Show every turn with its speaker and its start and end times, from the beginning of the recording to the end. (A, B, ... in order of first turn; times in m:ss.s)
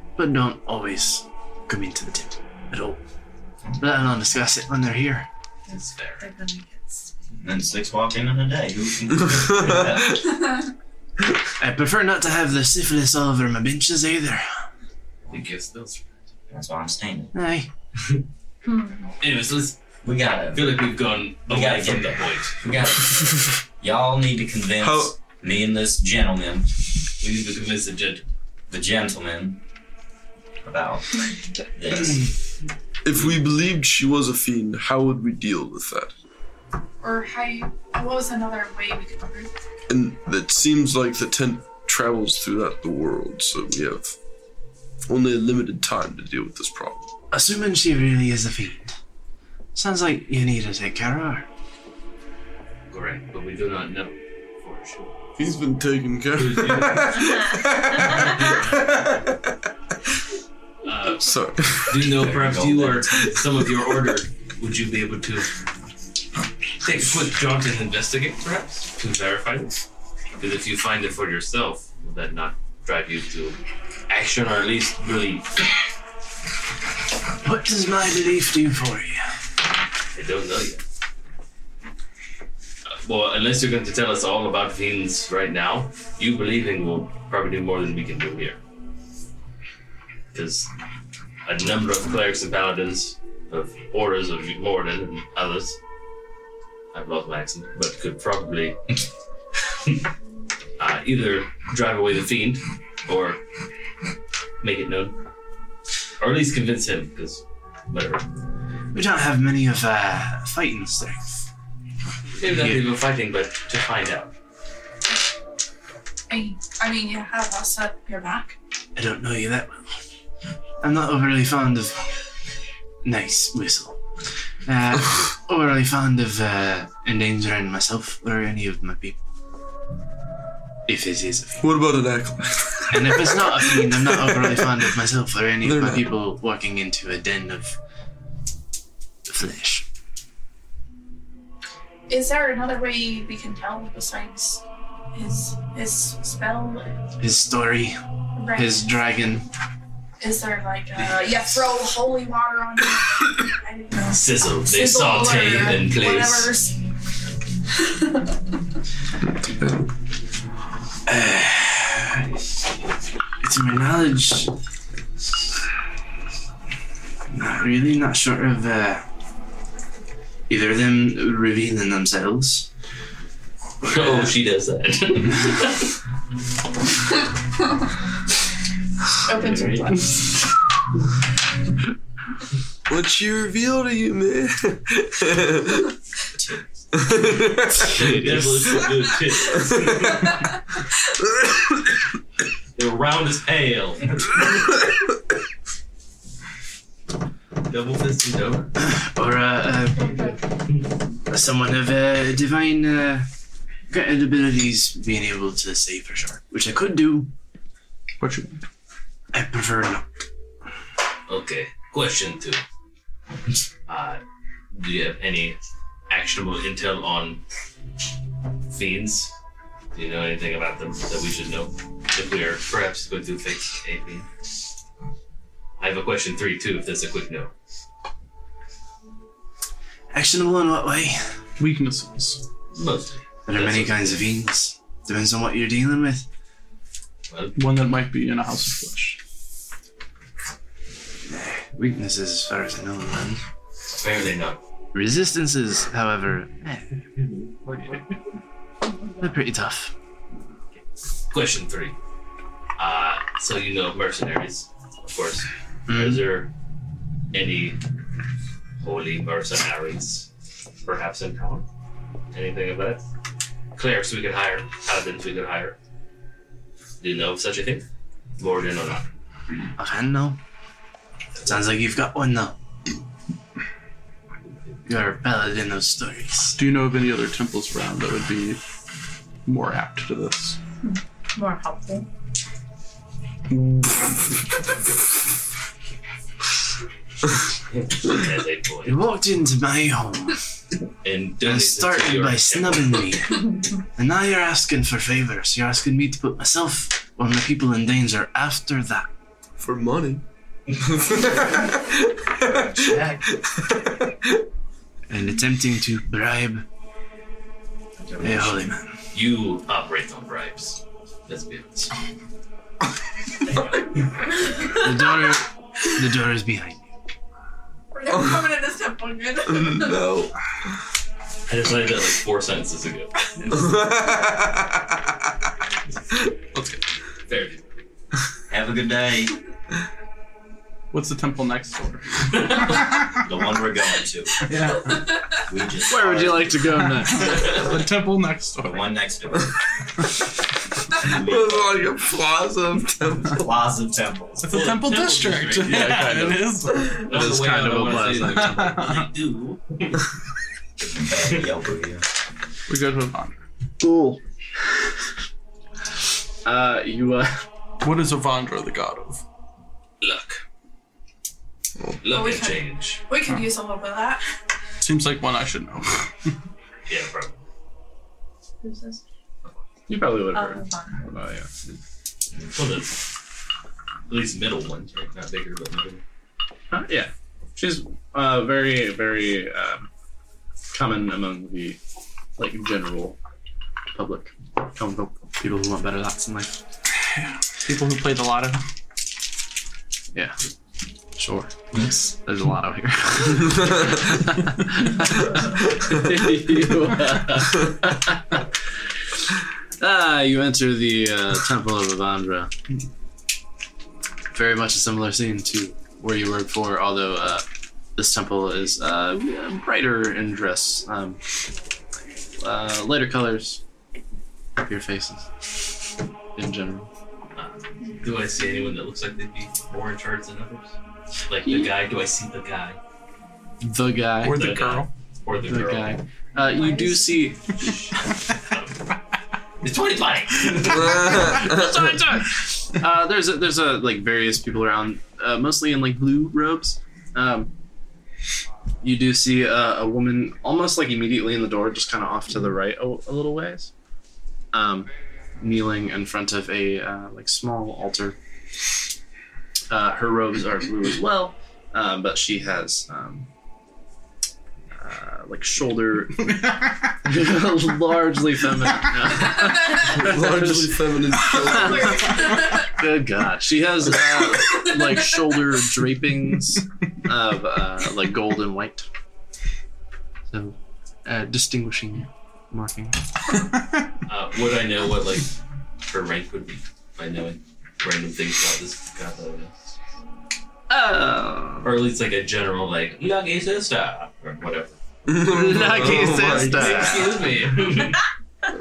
0:00.2-0:03.0 A
0:03.8-0:05.3 A
0:05.7-0:06.2 B
0:05.7-0:07.1 C
0:07.4-0:10.2 D
0:09.5-0:10.2 E
0:11.6-0:14.4 A
0:15.3-0:16.1 B
0:16.5-0:17.3 D
0:17.3-0:17.7 A
0:18.6-0:19.1 C
0:19.2-0:19.8 B
0:20.0-0:20.9 D
0:20.4-0:22.8 B
0:21.5-0:26.7 D
0:24.8-0:25.1 E
0:27.2-0:28.2 B
0:28.7-0:29.6 D
0:30.6-0:32.3 D
0:33.0-0:36.1 E
0:37.0-0:39.5 F
0:39.9-0:44.2 E
0:45.1-0:47.1 E
0:47.3-0:49.0 A
0:49.7-0:51.4 A
0:52.9-0:55.1 B
0:55.4-0:59.5 E
0:56.3-0:59.0 B
0:57.1-0:58.3 C
1:00.8-1:01.4 B
1:01.1-1:02.3 E
1:01.9-1:05.5 B
1:01.9-1:03.1 D
1:03.2-1:03.7 E
1:06.8-1:09.8 B
1:10.4-1:15.6 B
1:17.4-1:19.4 A
1:20.1-1:20.8 B
1:22.9-1:28.6 B
1:30.3-1:30.7 B
1:31.4-1:35.8 B
1:36.9-1:39.0 B
1:40.8-1:43.4 B
1:44.6-1:45.2 B
1:46.2-1:48.2 B
1:48.9-1:51.4 A
1:52.4-1:54.3 B
1:52.4-1:52.8 A
1:56.3-1:58.6 F
1:59.0-2:00.0 A
2:00.8-2:02.0 A
2:03.0-2:04.0 A
2:04.6-2:09.2 A
2:10.9-2:11.7 A
2:11.6-2:14.9 E
2:12.9-2:17.8 A
2:15.6-2:16.2 E
2:19.3-2:19.8 A
2:22.1-2:27.0 F
2:27.2-2:28.0 A
2:28.4-2:28.9 F
2:28.5-2:29.5 A
2:30.2-2:36.8 F
2:30.9-2:31.8 B
2:34.1-2:36.5 B
2:39.2-2:39.9 E
2:41.1-2:42.2 A
2:43.4-2:44.5 A
2:47.3-2:49.0 A
2:50.5-2:52.7 A
2:53.8-2:55.9 B
2:53.9-2:54.3 A
2:59.2-3:00.3 F
2:59.3-2:59.9 B
3:02.9-3:05.9 E
3:06.3-3:06.7 D
3:07.0-3:08.4 E
3:07.8-3:10.5 B
3:08.0-3:08.6 A
3:09.7-3:10.1 E
3:12.8-3:14.5 B
3:17.7-3:18.7 B
3:18.8-3:20.2 A
3:20.0-3:20.4 F
3:21.3-3:23.3 A
3:23.9-3:27.3 A
3:28.2-3:28.6 G
3:29.3-3:30.1 A
3:31.3-3:32.6 B
3:33.9-3:34.2 B
3:34.7-3:35.6 B
3:36.1-3:37.4 B
3:38.7-3:39.3 B
3:39.9-3:44.3 B
3:45.8-3:47.5 B
3:50.1-3:51.2 A
3:51.6-3:52.4 G
3:52.7-3:54.3 B
3:53.4-3:56.2 A
3:57.3-3:57.6 B
3:57.6-3:59.2 G
4:01.3-4:03.4 A
4:03.9-4:04.6 B
4:04.9-4:06.9 A
4:07.7-4:08.0 B
4:09.1-4:09.9 A
4:11.3-4:12.0 B
4:12.8-4:16.5 B
4:15.9-4:16.2 A
4:17.3-4:17.8 B
4:18.8-4:20.3 B
4:20.8-4:21.6 B
4:22.3-4:23.1 B
4:23.7-4:25.8 B
4:27.0-4:27.8 B
4:28.4-4:29.0 B
4:29.8-4:30.4 A
4:31.4-4:32.6 A
4:34.8-4:36.6 A
4:36.6-4:38.6 G
4:39.5-4:40.6 G
4:40.8-4:42.1 C
4:47.7-4:49.0 B
4:48.8-4:50.4 A
4:51.0-4:53.2 B
4:51.4-4:59.1 A
4:59.6-5:00.2 E
5:00.8-5:04.4 E
5:02.5-5:03.2 D
5:05.1-5:06.6 A
5:08.0-5:08.6 D
5:08.2-5:08.9 A
5:09.1-5:12.0 B
5:13.5-5:14.4 B
5:14.6-5:16.9 A
5:17.9-5:20.1 F
5:19.5-5:20.3 E
5:21.5-5:23.9 B
5:23.5-5:24.9 E
5:26.5-5:26.8 G
5:27.3-5:27.6 B
5:28.5-5:29.4 D
5:30.9-5:32.8 G
5:32.3-5:32.9 B
5:33.2-5:34.3 D
5:34.4-5:35.1 G
5:35.5-5:36.8 D
5:35.9-5:37.4 A
5:36.9-5:38.8 G
5:37.2-5:37.8 B
5:38.6-5:39.6 D
5:41.0-5:41.8 D
5:41.0-5:43.5 E
5:43.3-5:44.6 D
5:44.4-5:47.1 G
5:44.5-5:46.4 B
5:45.7-5:46.3 A
5:47.0-5:48.9 A
5:47.0-5:50.0 B
5:48.2-5:49.1 G
5:50.8-5:52.0 D
5:52.7-5:53.4 G
5:53.8-5:54.2 A
5:56.4-5:57.4 A
5:57.8-5:59.2 G
6:00.0-6:00.4 B
6:02.0-6:03.0 B
6:02.1-6:04.2 F
6:04.8-6:06.3 G
6:06.9-6:07.4 B
6:08.6-6:09.0 C
6:09.9-6:11.5 A
6:10.3-6:11.0 C
6:12.4-6:13.0 B
6:14.1-6:16.0 B
6:16.7-6:19.9 A
6:20.7-6:21.8 A
6:22.4-6:23.2 A
6:23.9-6:26.6 A
6:27.1-6:28.6 G
6:31.2-6:38.5 A
6:39.8-6:42.5 A
6:44.3-6:47.4 A
6:48.0-6:51.2 A
6:52.4-6:53.6 A
6:54.6-6:55.3 A
6:56.4-6:56.9 A
6:57.4-7:00.8 B
7:01.3-7:02.8 B
7:03.6-7:04.6 A
7:04.2-7:04.9 G
7:04.3-7:06.0 B
7:05.3-7:07.7 A
7:06.7-7:07.0 C
7:07.6-7:08.9 B
7:09.6-7:11.4 B
7:10.6-7:12.0 E
7:11.3-7:17.5 A
7:18.8-7:23.7 A
7:24.5-7:28.2 A
7:29.7-7:33.3 A
7:34.8-7:36.3 A
7:37.0-7:41.9 A
7:39.4-7:39.8 F
7:39.8-7:42.3 E
7:41.4-7:42.7 F
7:42.6-7:48.9 A
7:50.3-7:53.0 A
7:54.1-7:55.3 B
7:55.9-7:59.7 B
8:00.7-8:01.7 A
8:01.6-8:04.8 B
8:05.1-8:07.2 E
8:05.2-8:07.2 A
8:06.2-8:08.0 B